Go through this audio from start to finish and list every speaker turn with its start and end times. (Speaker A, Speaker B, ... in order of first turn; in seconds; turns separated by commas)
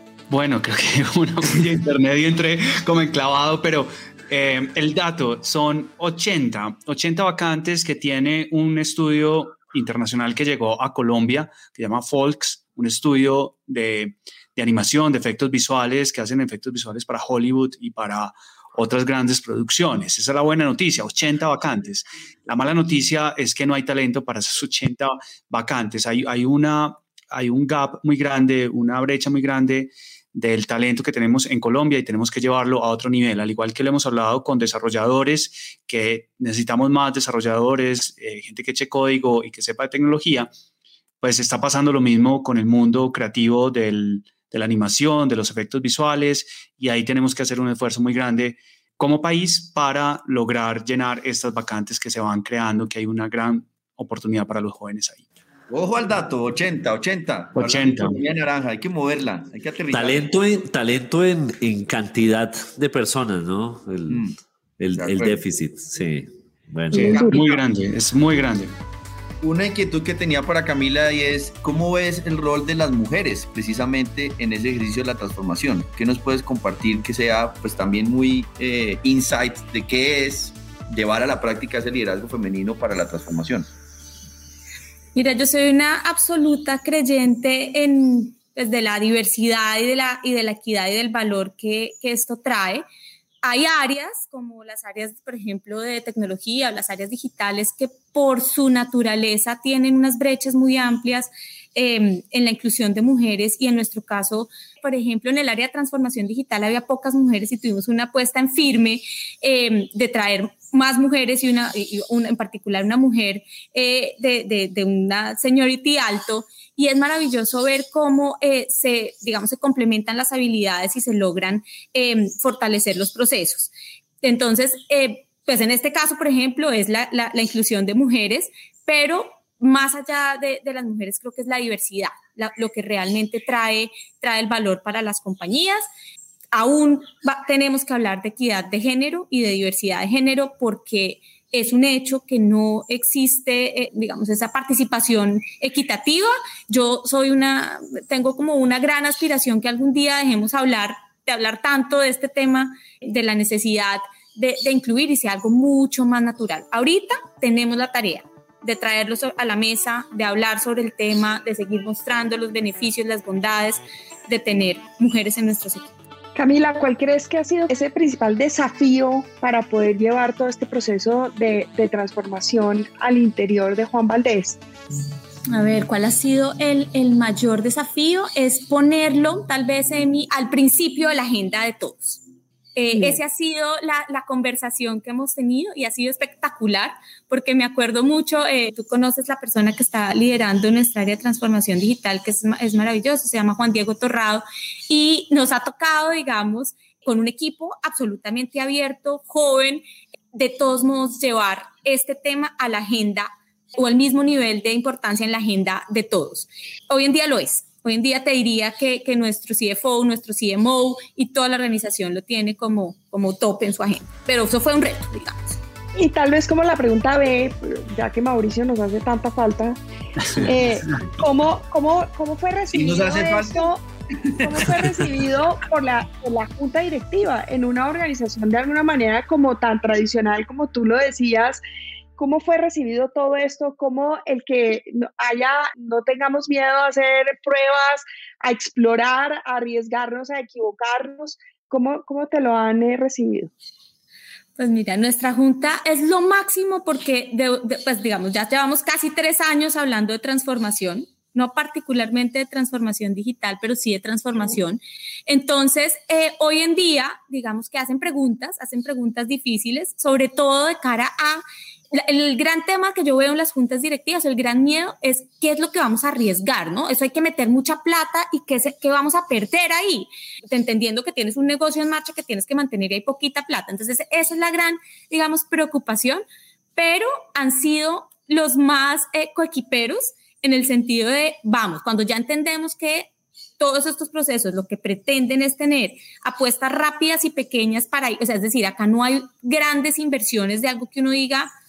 Speaker A: 0.3-40.5, Speaker A: 41.2-55.2, Speaker B: 55.7-60.3, Speaker A: 57.5-58.2, Speaker C: 59.9-64.2, Speaker B: 64.1-64.3, Speaker C: 64.8-67.2, Speaker B: 65.0-65.4, Speaker A: 66.9-68.8, Speaker B: 67.0-67.6, Speaker B: 69.4-83.7, Speaker D: 85.2-92.8, Speaker D: 93.4-123.7, Speaker D: 124.2-135.9, Speaker D: 136.5-165.9, Speaker E: 166.4-174.6, Speaker D: 175.5-182.2, Speaker D: 182.8-215.6, Speaker E: 216.0-219.8, Speaker A: 220.3-221.0, Speaker E: 220.3-223.8, Speaker B: 222.7-225.2, Speaker E: 224.4-231.6, Speaker E: 232.2-243.5, Speaker D: 244.6-276.2, Speaker D: 276.8-291.5